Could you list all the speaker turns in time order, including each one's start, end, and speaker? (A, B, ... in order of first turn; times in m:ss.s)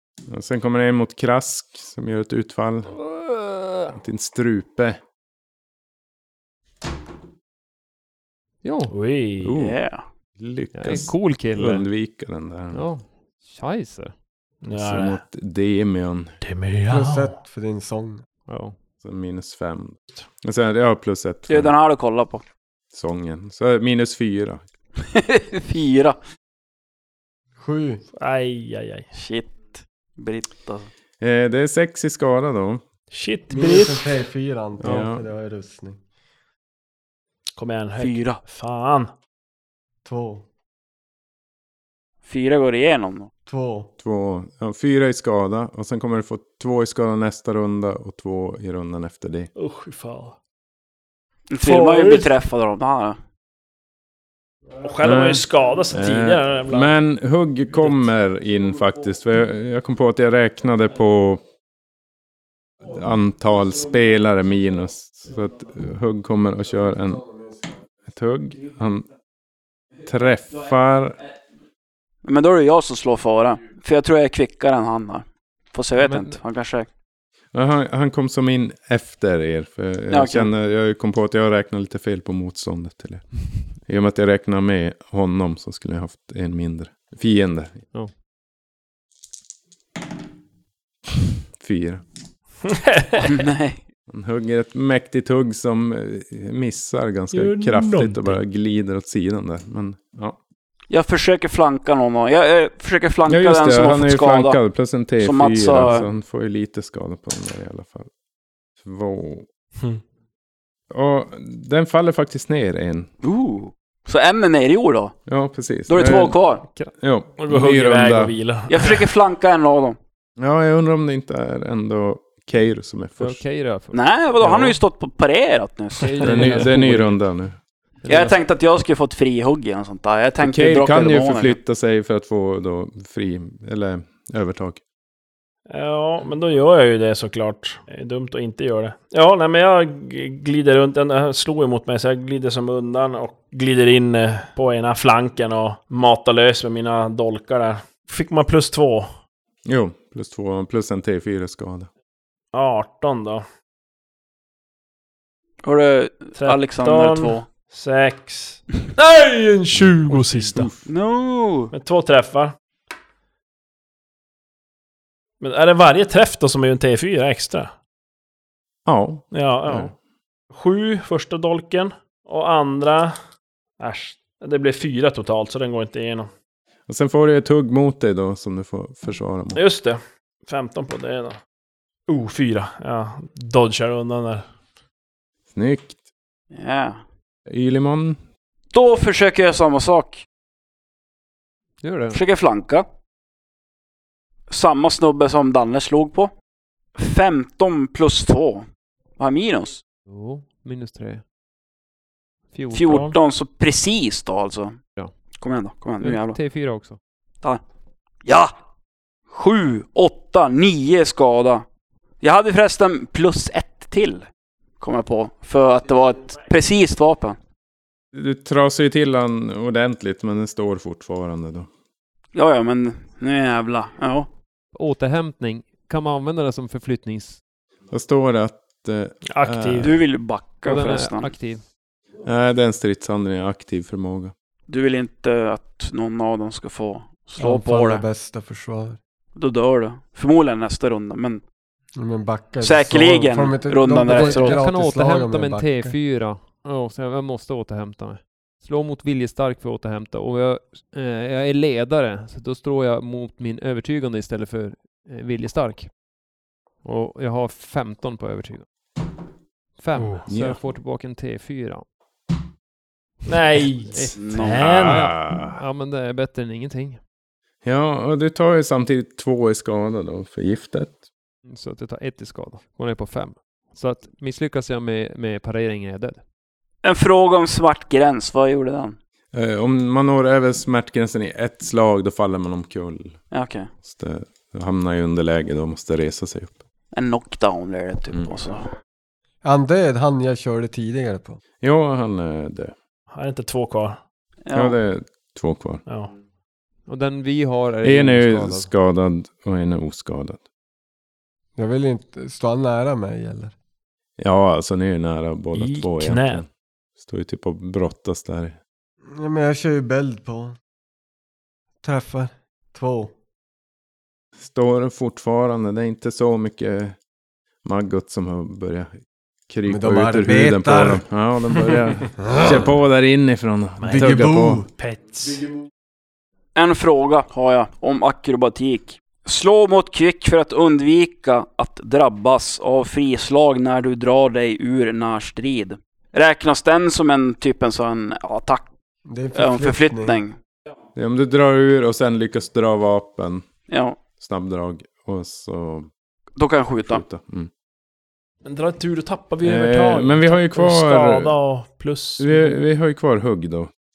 0:00.3-0:03.0 A
0:03.0-0:03.9 B
0:03.9-0:05.0 A
0:08.6-0:08.9 B
0:08.9-0:09.6 C
0:09.4-0:09.8 A
0:09.6-0:10.0 D
0:10.4-0:12.8 A
0:10.7-0:11.8 B
0:12.7-0:14.1 B
0:14.6-0:15.2 C
0:14.7-0:16.3 A
0:16.4-0:17.3 C
0:16.9-0:18.2 E
0:18.5-0:18.8 B
0:19.0-0:21.7 A
0:21.5-0:22.4 D
0:22.9-0:24.6 A
0:25.1-0:26.2 D
0:27.6-0:28.0 E
0:28.1-0:29.1 C
0:29.1-0:30.9 D
0:31.2-0:32.8 A
0:33.1-0:34.1 C
0:33.5-0:36.0 E
0:34.8-0:35.1 B
0:34.8-0:35.2 A
0:37.6-0:39.1 C
0:38.0-0:38.4 D
0:40.0-0:40.4 E
0:42.2-0:43.3 D
0:43.5-0:43.9 E
0:44.0-0:49.5 A
0:49.6-0:50.3 C
0:51.5-0:53.2 D
0:51.6-0:52.3 C
0:54.8-0:56.9 C
0:55.0-1:01.4 A
1:02.8-1:07.2 A
1:07.0-1:07.5 E
1:08.1-1:09.1 A
1:10.0-1:11.2 A
1:12.2-1:16.9 D
1:16.0-1:16.4 B
1:17.5-1:27.8 A
1:20.1-1:20.5 D
1:31.6-1:32.0 A
1:32.6-1:33.5 C
1:33.2-1:33.8 D
1:34.1-1:40.4 A
1:37.3-1:38.3 C
1:40.9-1:44.6 D
1:43.3-1:48.1 A
1:45.2-1:46.1 D
1:48.8-1:49.5 A
1:50.9-1:53.1 A
1:53.2-1:55.2 D
1:55.3-1:56.4 A
1:55.9-1:56.6 D
1:57.0-1:58.3 A
1:57.4-1:59.0 C
1:58.7-2:00.0 D
2:00.4-2:03.4 A
2:03.2-2:04.7 B
2:03.9-2:06.7 D
2:06.0-2:07.2 B
2:06.2-2:07.6 A
2:08.0-2:08.4 B
2:08.0-2:11.6 D
2:10.4-2:14.8 A
2:15.7-2:29.1 C
2:29.6-2:31.9 A
2:32.5-2:33.4 C
2:35.6-2:37.5 D
2:36.4-2:40.7 C
2:39.7-2:40.9 A
2:40.8-2:41.7 D
2:41.7-2:42.5 C
2:45.4-2:47.7 C
2:48.8-2:49.9 A
2:49.3-2:49.9 C
2:50.5-2:53.1 C
2:53.8-2:56.3 C
2:56.9-2:59.6 A
2:59.5-3:01.4 C
3:02.1-3:04.4 C
3:05.5-3:06.0 A
3:06.5-3:07.0 D
3:07.5-3:08.2 A
3:08.7-3:10.2 D
3:11.8-3:12.2 B
3:12.1-3:12.8 D
3:14.5-3:16.3 D
3:17.0-3:18.6 D
3:19.2-3:19.8 D
3:20.1-3:21.2 B
3:22.5-3:23.1 B
3:22.7-3:24.8 D
3:25.4-3:26.4 D
3:26.0-3:27.0 B
3:28.2-3:28.5 D
3:29.3-3:31.6 D
3:32.2-3:34.2 D
3:34.8-3:37.4 D
3:38.1-3:41.7 A
3:42.3-3:44.3 D
3:44.7-3:47.4 B
3:47.9-3:49.9 A
3:49.2-3:49.9 C
3:49.8-3:51.3 D
3:50.6-3:51.6 B
3:52.2-3:54.3 A
3:54.7-3:58.0 D
3:57.4-3:59.0 E
3:59.4-4:01.4 D
4:01.9-4:06.0 E
4:02.6-4:04.6 D
4:04.1-4:16.0 B
4:16.8-4:18.6 B
4:19.8-4:21.8 B
4:20.0-4:20.2 C
4:20.3-4:20.6 A
4:23.2-4:25.2 C
4:23.8-4:27.0 B
4:24.2-4:24.6 D
4:24.5-4:25.6 A
4:27.6-4:31.0 A
4:31.5-4:36.2 B
4:36.8-4:39.0 D
4:39.3-4:43.2 A
4:43.3-4:43.7 D
4:43.8-4:46.6 A
4:46.9-4:48.6 D
4:49.4-4:51.4 E
4:51.6-4:52.8 A
4:53.1-4:54.0 C
4:54.4-4:54.8 D
4:54.5-4:55.8 A
4:55.9-4:56.1 C
4:56.9-4:58.7 B
4:57.8-5:00.4 A
5:01.6-5:03.5 E
5:04.2-5:06.5 A
5:05.5-5:06.4 C
5:07.0-5:08.6 A
5:09.1-5:10.6 E
5:11.8-5:13.1 E
5:14.4-5:17.0 A
5:17.6-5:19.0 A
5:19.5-5:24.6 A
5:19.7-5:21.0 E
5:22.2-5:22.6 E
5:23.8-5:25.4 C
5:23.8-5:24.7 E
5:26.6-5:38.7 D
5:39.1-5:40.2 E
5:39.3-5:40.3 D
5:40.9-5:43.4 A
5:43.7-5:44.0 D
5:44.2-5:45.9 A
5:46.4-5:47.0 D
5:46.8-5:47.5 A
5:48.4-5:52.5 C
5:49.4-5:51.3 A
5:52.2-5:53.7 A